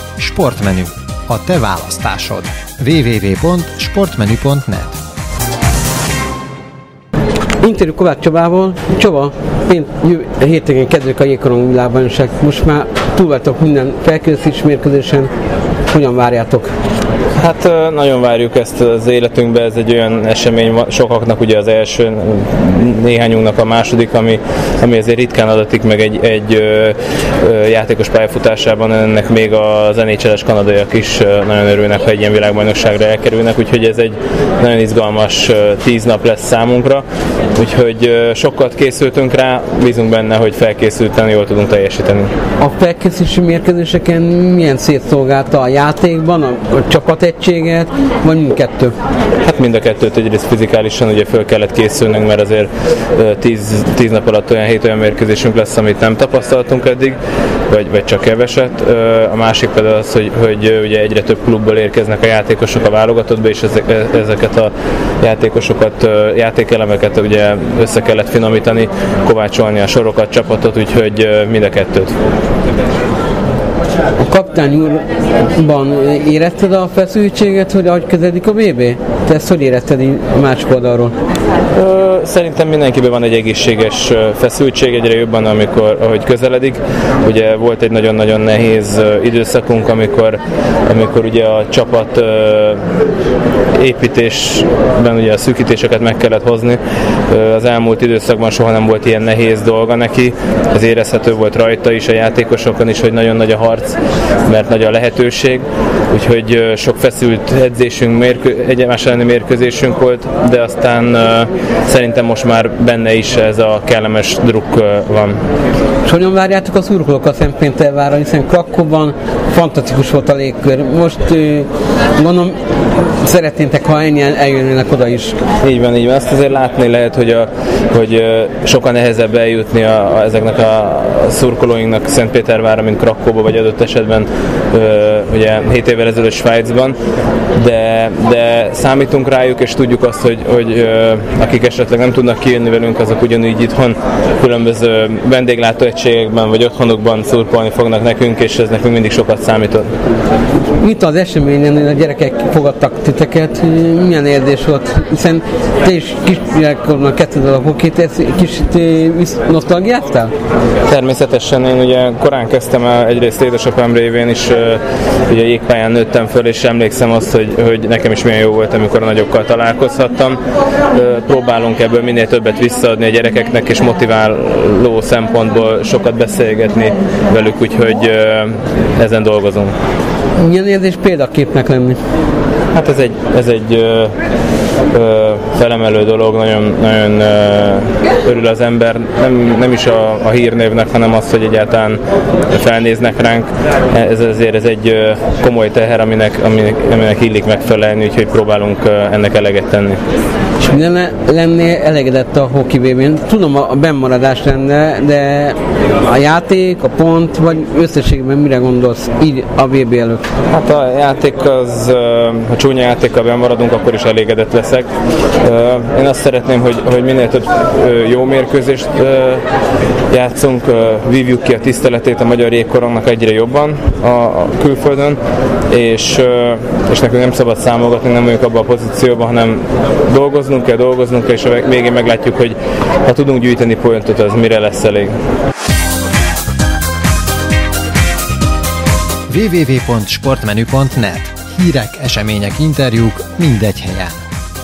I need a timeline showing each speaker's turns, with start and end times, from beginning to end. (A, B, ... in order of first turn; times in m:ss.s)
0:00.2-0:05.0 A
0:07.6-0:15.3 B
0:15.9-0:16.7 B
0:17.4-0:42.3 C
0:42.6-0:48.9 B
0:49.4-0:57.2 C
0:57.7-1:12.2 C
1:14.2-1:21.1 B
1:21.8-1:32.8 C
1:33.8-1:55.4 C
1:56.0-2:02.6 B
2:03.2-2:05.4 B
2:05.6-2:17.0 C
2:17.6-2:29.9 C
2:30.8-2:40.3 B
2:40.9-2:50.4 C
2:50.9-2:59.8 C
3:00.4-3:02.0 B
3:02.7-3:04.1 C
3:04.9-3:20.0 C
3:20.6-3:30.2 B
3:30.5-3:34.9 C
3:35.4-3:39.4 C
3:40.1-3:45.2 C
3:45.7-3:55.1 C
3:59.3-4:04.3 A